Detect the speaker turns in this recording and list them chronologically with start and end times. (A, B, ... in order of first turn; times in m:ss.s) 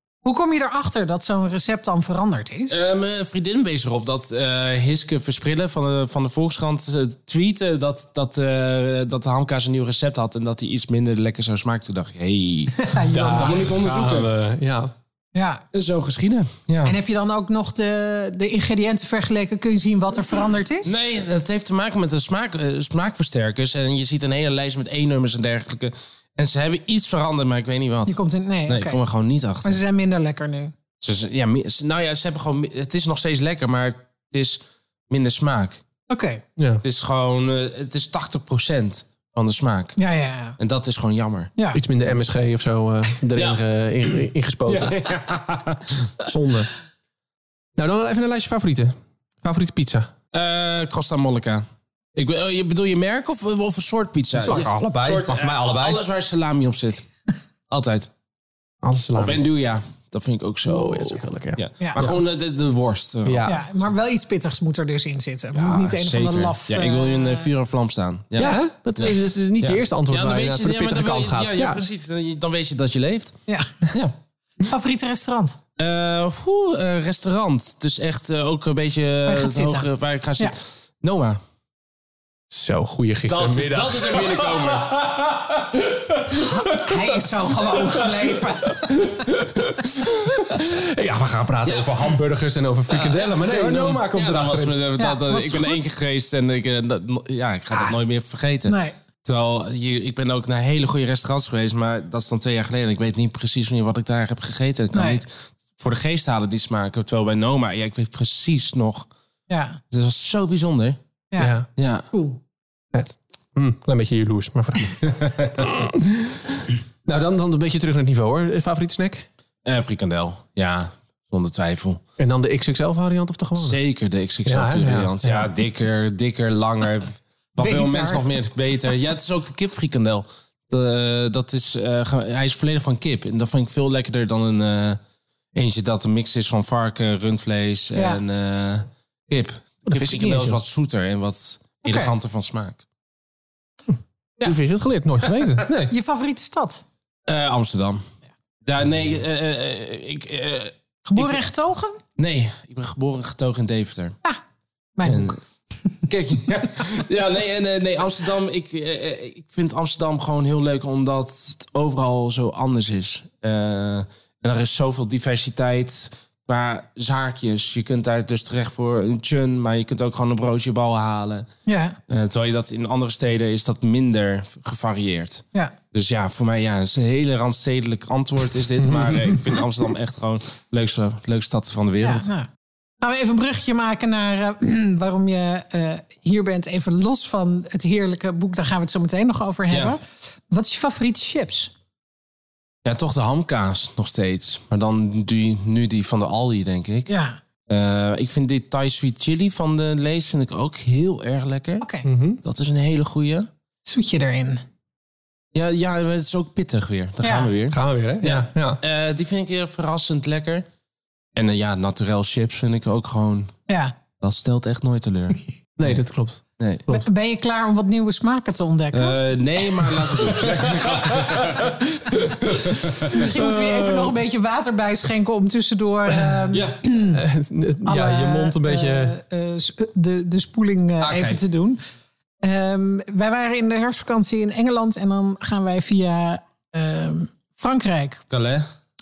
0:00.2-0:02.9 A
0:02.7-0:14.3 B
0:12.7-0:13.7 A
0:13.1-0:14.9 C
0:15.3-0:15.6 A
0:15.7-0:17.0 B
0:16.8-0:21.0 A
0:20.8-0:29.8 B
0:28.1-0:29.0 A
0:29.6-0:30.7 A
0:31.0-0:35.8 B
0:36.1-0:36.4 A
0:36.6-0:36.8 C
0:36.8-0:40.0 B
0:40.0-0:40.6 A
0:40.6-0:41.5 B
0:41.7-0:45.0 C
0:44.7-0:46.1 B
0:46.2-0:46.7 C
0:47.8-0:50.1 C
0:50.3-0:57.0 B
0:54.3-0:56.0 C
0:57.7-0:58.1 B
0:58.8-0:59.4 C
0:59.2-1:03.5 B
1:00.6-1:02.2 C
1:03.2-1:03.6 C
1:03.4-1:07.5 A
1:05.5-1:13.3 B
1:08.4-1:11.8 C
1:13.5-1:13.8 A
1:14.6-1:15.6 A
1:15.8-1:21.4 B
1:19.2-1:19.9 A
1:22.5-1:28.1 C
1:23.3-1:25.1 B
1:26.3-1:29.2 A
1:28.7-1:34.8 C
1:31.6-1:32.1 B
1:32.9-1:49.1 B
1:35.0-1:35.9 A
1:38.7-1:38.9 A
1:44.9-1:45.2 A
1:49.5-1:49.8 A
1:49.9-1:51.0 B
1:51.4-1:51.7 C
1:51.8-1:52.0 B
1:52.1-1:52.4 A
1:52.9-1:59.3 C
1:55.0-1:55.6 B
1:59.6-2:02.0 B
2:02.2-2:03.8 C
2:03.6-2:15.0 B
2:04.4-2:05.5 C
2:07.6-2:08.2 A
2:15.5-2:22.8 B
2:17.9-2:18.2 A
2:19.9-2:20.6 C
2:21.8-2:22.1 A
2:24.4-2:25.9 C
2:25.9-2:26.8 A
2:27.3-2:28.0 B
2:28.6-2:31.4 B
2:31.1-2:32.0 A
2:32.2-2:34.2 B
2:35.0-2:35.4 A
2:35.0-2:35.4 B
2:36.1-2:51.5 B
2:51.6-2:52.0 A
2:52.1-3:02.3 B
2:58.8-2:59.5 C
3:02.0-3:02.5 A
3:03.0-3:11.7 A
3:12.8-3:17.1 B
3:17.1-3:17.4 A
3:17.7-3:21.8 B
3:21.8-3:22.1 A
3:22.0-3:22.4 C
3:22.4-3:23.5 B
3:23.8-3:24.6 A
3:25.5-3:30.6 B
3:27.2-3:27.5 A
3:27.7-3:28.8 C
3:31.4-3:33.5 B
3:33.7-3:33.9 A
3:34.2-3:36.0 B
3:35.8-3:37.0 C
3:36.6-3:36.8 B
3:36.9-3:39.9 A
3:38.9-3:43.3 B
3:40.4-3:43.2 C
3:42.4-3:47.2 A
3:46.5-3:46.8 B
3:47.0-3:49.2 C
3:47.8-3:51.8 A
3:51.0-3:51.4 B
3:52.4-3:58.2 A
3:58.3-3:58.6 B